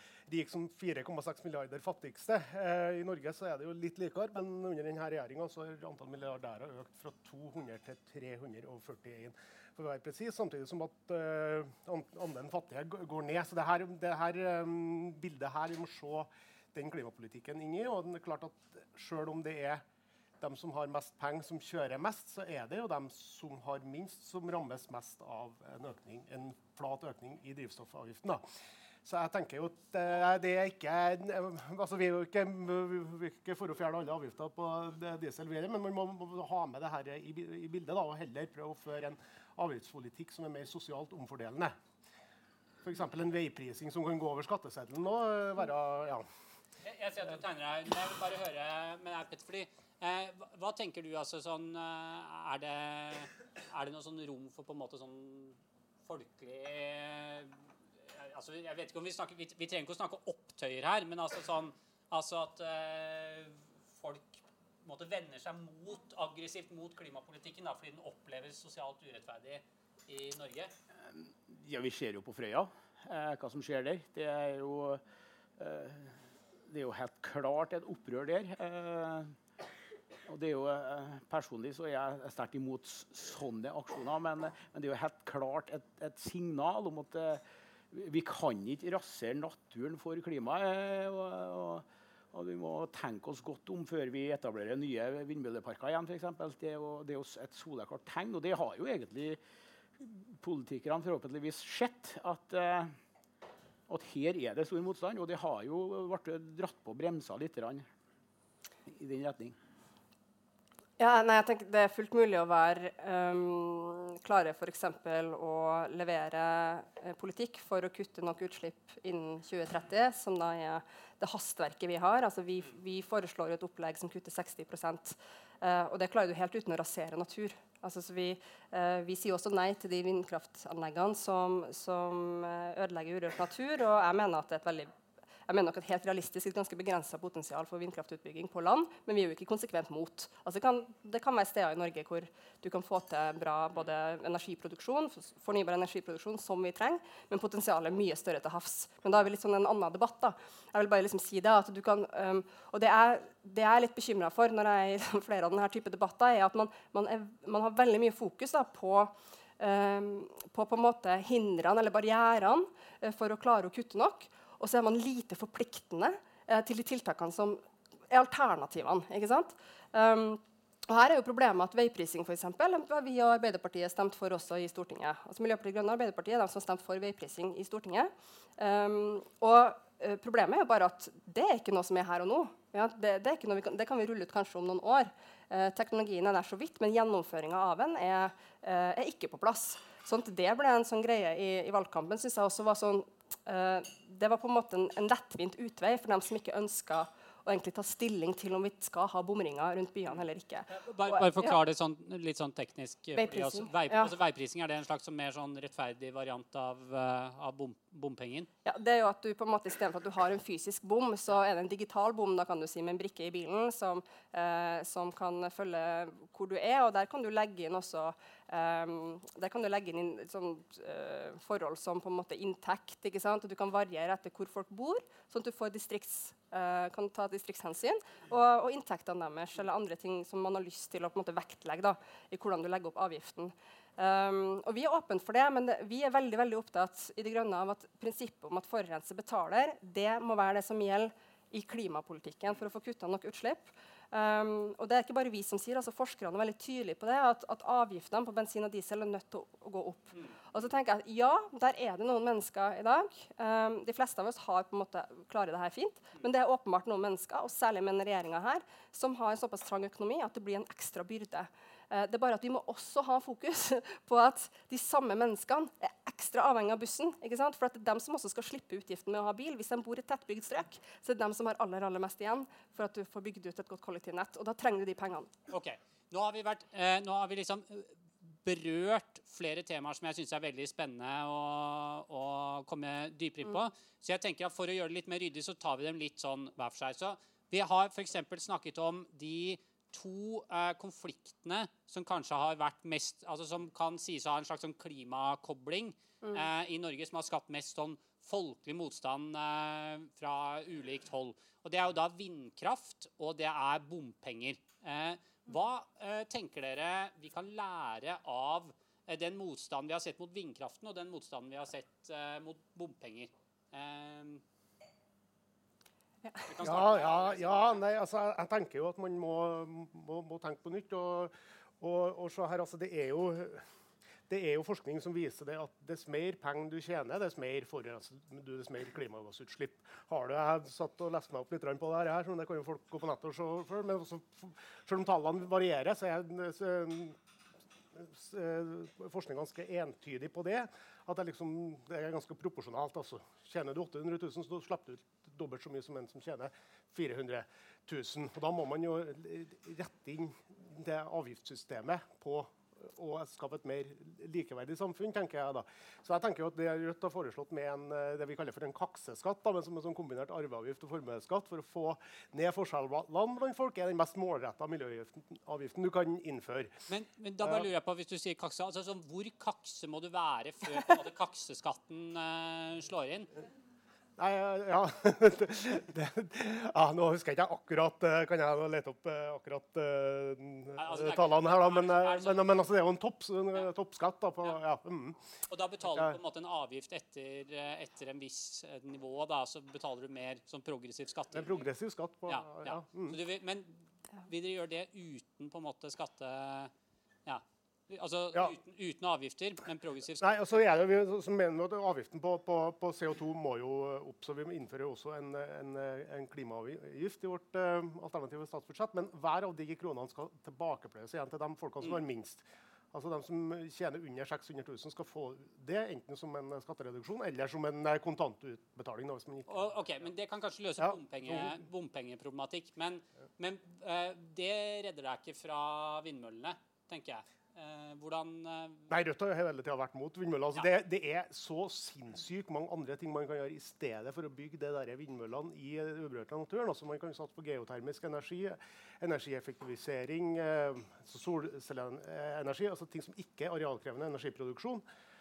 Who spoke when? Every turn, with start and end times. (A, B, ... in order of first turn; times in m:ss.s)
0:00.3-0:19.8 A
0:20.4-0:28.4 A
0:29.0-0:41.8 A
0:42.8-0:46.3 A
0:46.8-0:57.5 B
0:58.1-1:10.7 B
1:11.1-1:15.0 C
1:15.6-1:16.2 C
1:16.7-1:19.4 C
1:20.3-1:39.4 C
1:40.0-1:42.9 C
1:43.9-1:47.8 C
1:48.9-1:49.6 C
1:51.0-2:14.9 D
2:15.5-3:21.6 D
3:20.7-3:28.5 B
3:23.2-3:24.1 D
3:28.6-4:35.3 D
4:35.5-5:14.4 B
5:16.5-5:17.8 B
5:16.6-5:23.6 A
5:24.3-5:37.2 A
5:37.9-6:06.7 A
6:06.9-6:13.3 B
6:07.4-6:07.7 A
6:14.2-6:25.2 A
6:20.8-6:22.6 B
6:25.5-6:31.7 B
6:25.9-6:26.2 A
6:31.3-6:33.2 A
6:32.3-6:36.7 B
6:37.3-6:40.3 B
6:40.2-6:59.7 A
6:59.5-7:08.9 B
7:00.8-7:01.6 A
7:08.9-7:24.8 A